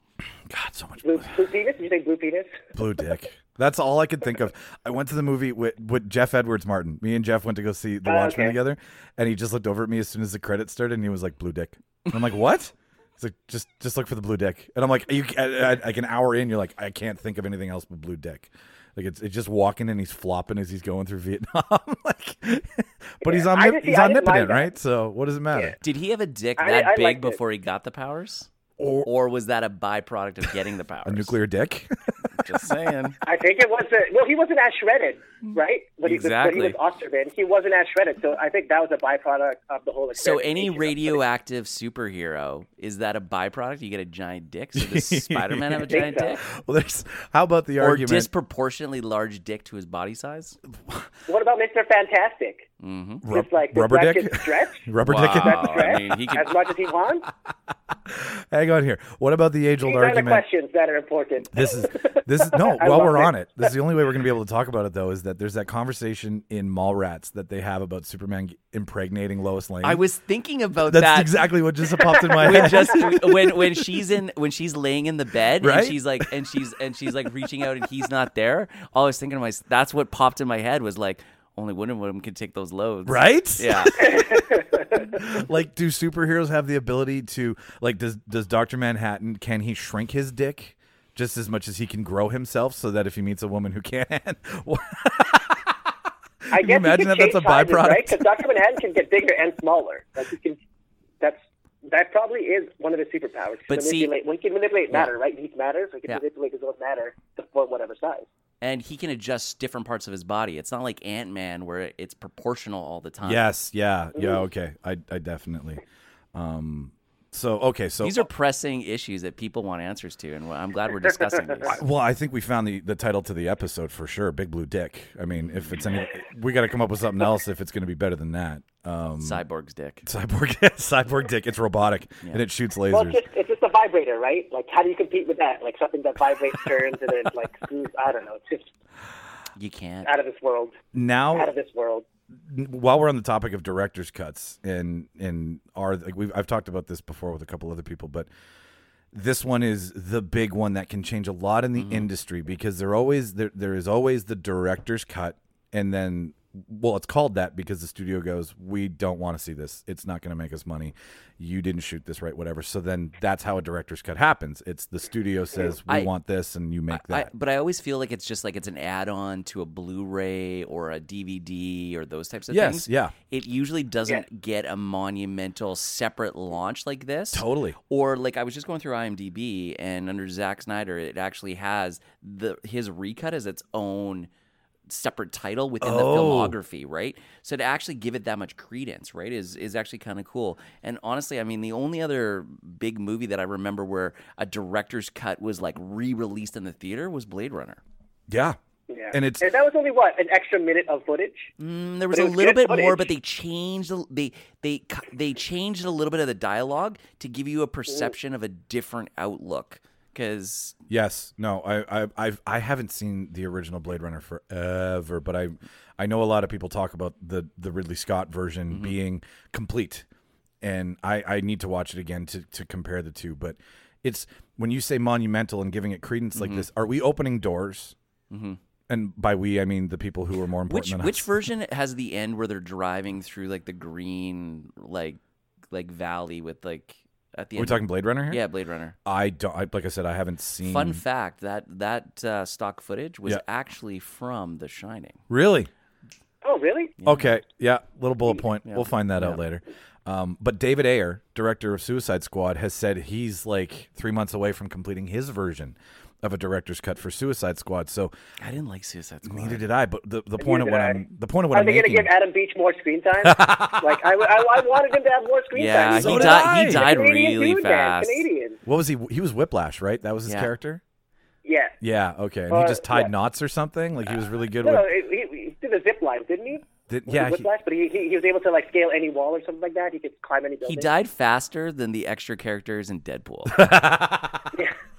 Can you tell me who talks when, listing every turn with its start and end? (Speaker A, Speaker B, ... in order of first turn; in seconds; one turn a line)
Speaker A: 0.5-1.4
Speaker B: 1.0-2.6
Speaker A: 2.7-25.8
Speaker B: 8.0-8.6
Speaker B: 23.2-24.7
Speaker C: 25.8-28.5
Speaker B: 26.6-27.4
Speaker A: 28.8-29.1
Speaker C: 29.0-31.3
Speaker A: 31.0-32.5
Speaker C: 32.3-33.2
Speaker B: 33.2-41.2
Speaker C: 36.0-36.8
Speaker C: 40.1-46.4
Speaker A: 44.7-48.3
Speaker B: 45.9-46.4
Speaker C: 47.8-50.6
Speaker B: 51.3-52.6
Speaker C: 52.8-53.2
Speaker A: 53.2-55.9
Speaker B: 53.3-57.2
Speaker C: 55.0-56.6
Speaker A: 58.0-60.4
Speaker B: 59.8-63.3
Speaker A: 61.5-70.0
Speaker C: 69.8-71.5
Speaker A: 70.9-73.8
Speaker B: 72.2-73.0
Speaker C: 72.4-84.4
Speaker A: 75.6-76.4
Speaker A: 83.0-84.4
Speaker B: 84.0-85.0
Speaker A: 84.9-95.8
Speaker A: 96.5-98.4
Speaker B: 96.5-100.6
Speaker B: 101.2-108.3
Speaker C: 103.7-104.1
Speaker C: 108.6-113.5
Speaker A: 113.2-115.8
Speaker A: 116.3-118.2
Speaker C: 118.0-121.8
Speaker A: 121.7-129.4
Speaker C: 125.5-125.8
Speaker C: 129.2-130.0
Speaker A: 130.0-133.2
Speaker B: 132.9-138.7
Speaker C: 139.6-140.1
Speaker B: 140.0-140.8
Speaker A: 140.9-141.5
Speaker B: 141.3-142.1
Speaker A: 142.4-148.3
Speaker A: 149.1-167.3
Speaker C: 151.8-152.1
Speaker C: 166.9-184.3
Speaker A: 172.5-173.1
Speaker A: 177.3-177.8
Speaker C: 184.9-197.8
Speaker A: 185.8-186.6
Speaker A: 198.3-198.6
Speaker B: 198.9-201.5
Speaker A: 199.1-199.5
Speaker C: 201.6-210.8
Speaker B: 202.1-203.1
Speaker A: 210.9-220.1
Speaker C: 218.7-218.9
Speaker A: 220.6-227.9
Speaker C: 226.3-226.7
Speaker C: 228.3-228.6
Speaker A: 228.9-231.3
Speaker C: 230.7-235.2
Speaker C: 235.7-238.9
Speaker A: 237.6-238.4
Speaker A: 239.0-241.0
Speaker C: 240.6-245.2
Speaker A: 245.3-245.7
Speaker B: 246.4-246.9
Speaker C: 247.0-247.3
Speaker A: 247.0-258.1
Speaker C: 248.7-249.4
Speaker C: 258.4-259.6
Speaker A: 259.2-262.1
Speaker B: 260.4-261.0
Speaker B: 261.5-268.6
Speaker A: 263.2-264.0
Speaker C: 265.5-268.2
Speaker A: 265.9-266.9
Speaker A: 268.6-270.8
Speaker B: 271.4-271.8
Speaker A: 271.8-274.9
Speaker B: 272.5-273.1
Speaker B: 274.6-280.9
Speaker A: 276.9-277.5
Speaker C: 280.6-283.7
Speaker A: 283.5-284.5